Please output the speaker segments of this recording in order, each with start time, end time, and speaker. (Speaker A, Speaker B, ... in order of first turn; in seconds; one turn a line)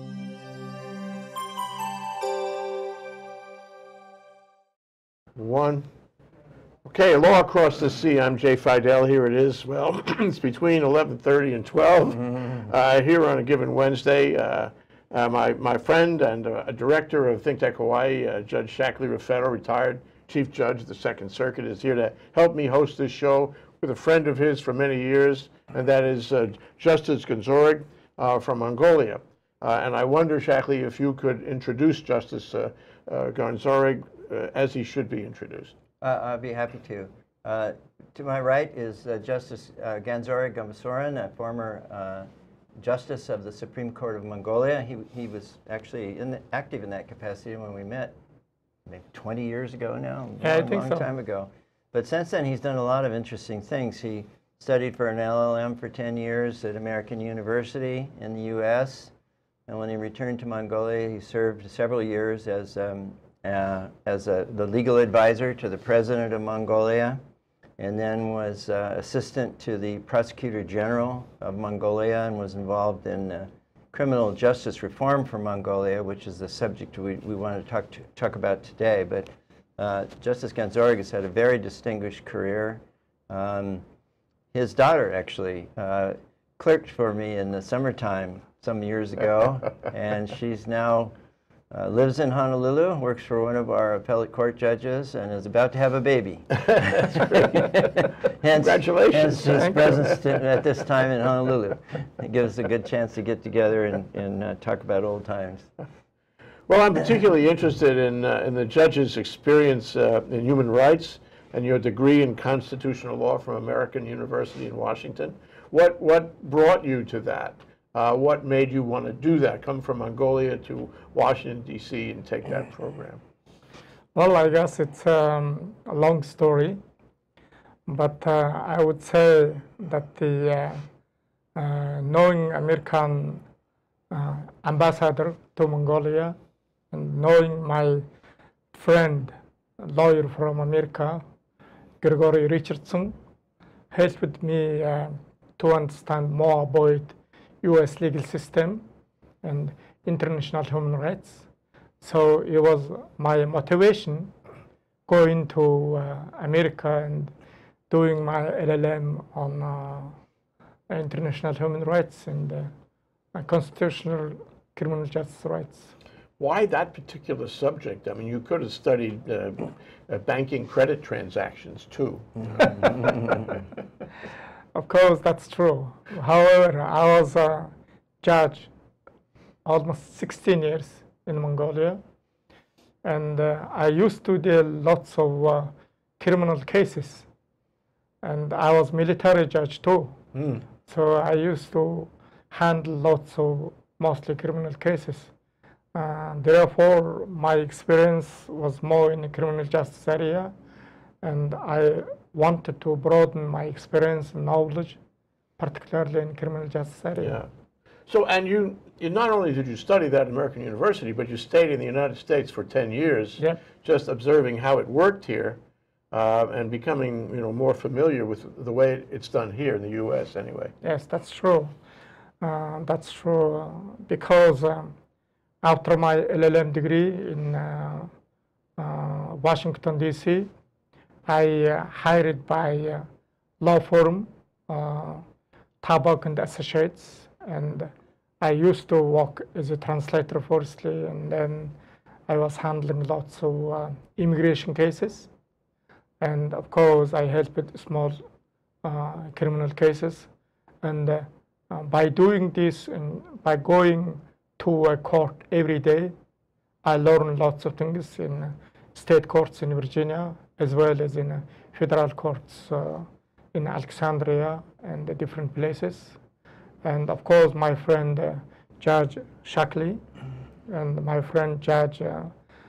Speaker A: 5.3-5.8
Speaker A: 6.8-35.7
Speaker B: 36.0-42.3
Speaker B: 42.8-48.1
Speaker B: 48.9-59.1
Speaker C: 50.4-51.0
Speaker B: 59.7-67.2
Speaker B: 67.8-83.8
Speaker B: 84.5-91.1
Speaker B: 91.7-105.7
Speaker A: 96.6-97.7
Speaker A: 98.5-100.2
Speaker A: 106.7-123.2
Speaker C: 124.1-126.8
Speaker C: 127.9-130.8
Speaker C: 131.6-133.4
Speaker C: 134.1-136.3
Speaker C: 136.9-138.1
Speaker C: 138.7-141.2
Speaker C: 142.0-143.2
Speaker C: 143.9-148.8
Speaker C: 149.4-151.5
Speaker C: 152.0-154.3
Speaker C: 155.1-157.3
Speaker C: 157.9-160.2
Speaker C: 160.9-162.7
Speaker C: 163.3-165.9
Speaker A: 166.4-173.3
Speaker C: 174.7-178.7
Speaker C: 179.6-182.0
Speaker C: 183.0-187.3
Speaker C: 188.2-190.2
Speaker A: 190.3-190.6
Speaker C: 190.8-195.3
Speaker C: 195.9-200.5
Speaker C: 201.2-205.0
Speaker C: 205.6-207.4
Speaker A: 207.2-207.5
Speaker A: 208.1-215.6
Speaker A: 216.1-220.7
Speaker C: 220.8-221.7
Speaker C: 222.4-224.9
Speaker C: 225.6-228.1
Speaker C: 228.8-230.5
Speaker C: 231.3-233.1
Speaker C: 233.6-235.2
Speaker C: 235.8-241.8
Speaker C: 242.3-245.3
Speaker C: 246.2-248.2
Speaker C: 248.8-250.3
Speaker C: 250.8-256.1
Speaker C: 256.8-266.2
Speaker C: 266.8-270.0
Speaker C: 270.7-272.3